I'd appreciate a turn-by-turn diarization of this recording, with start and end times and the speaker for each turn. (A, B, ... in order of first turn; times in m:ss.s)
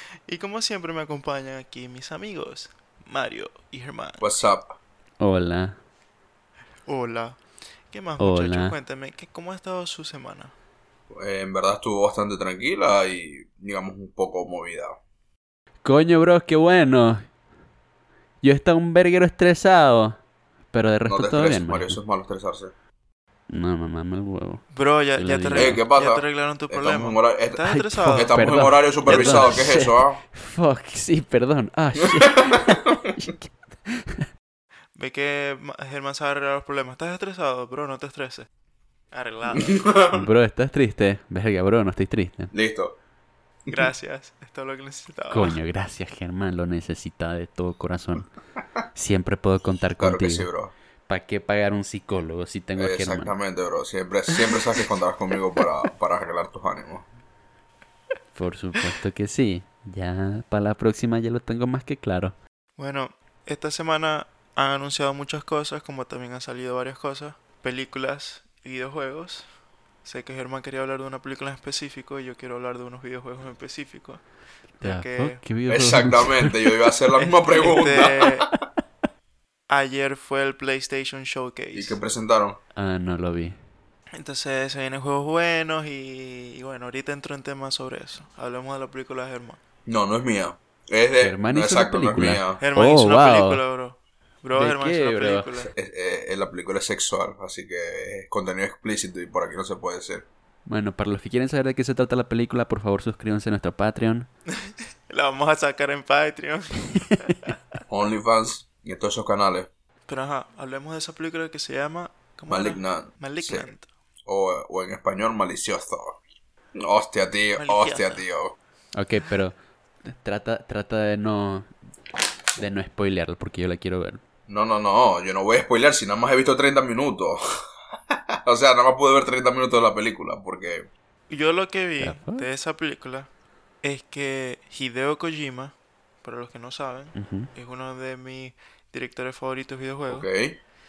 0:00.3-0:04.3 A
0:04.2-0:04.8 B
0:05.2-0:05.8 C
0:06.9-0:07.4 A
0:07.9-0:10.5 A
0:08.2-0:08.7 C
0:11.1-0:15.0 B
0:15.8-0:17.2 C
0:18.4-0:20.2 C
0:20.7-0:22.0 C
0:21.1-0:22.7 B
0:23.5-0:25.8 C
0:24.7-0:28.4 A
0:25.6-0:30.2 B
0:27.6-0:34.3 C
0:29.1-0:29.4 A
0:32.0-0:32.6 B
0:35.0-0:38.5 A
0:39.1-0:39.9 A
0:39.5-0:40.2 B
0:40.1-0:42.5 C
0:42.5-0:43.0 B
0:43.6-0:43.9 B
0:43.7-0:45.6 A
0:45.3-0:48.3 C
0:48.9-0:50.5 C
0:50.0-0:50.7 B
0:51.1-0:53.3 C
0:52.8-0:57.1 B
0:58.3-1:02.4 C
1:02.8-1:09.4 A
1:10.0-1:14.2 A
1:14.8-1:15.4 A
1:14.8-1:16.7 C
1:15.7-1:18.3 B
1:17.2-1:18.5 A
1:19.7-1:22.0 A
1:21.7-1:22.6 B
1:22.8-1:23.6 C
1:24.2-1:29.6 A
1:29.8-1:32.6 B
1:31.2-1:33.6 C
1:32.6-1:35.7 A
1:34.5-1:35.5 C
1:35.7-1:40.3 B
1:40.6-1:44.3 C
1:44.6-1:47.5 A
1:47.9-1:49.7 B
1:50.1-1:53.9 A
1:52.5-1:53.7 B
1:54.2-1:56.2 B
1:56.7-1:58.5 B
1:57.6-1:58.2 A
1:58.9-2:01.7 C
2:02.6-2:04.2 C
2:04.5-2:07.4 B
2:08.4-2:10.9 B
2:11.3-2:13.3 A
2:12.0-2:12.5 C
2:13.8-2:20.3 A
2:17.1-2:17.5 C
2:20.1-2:20.6 B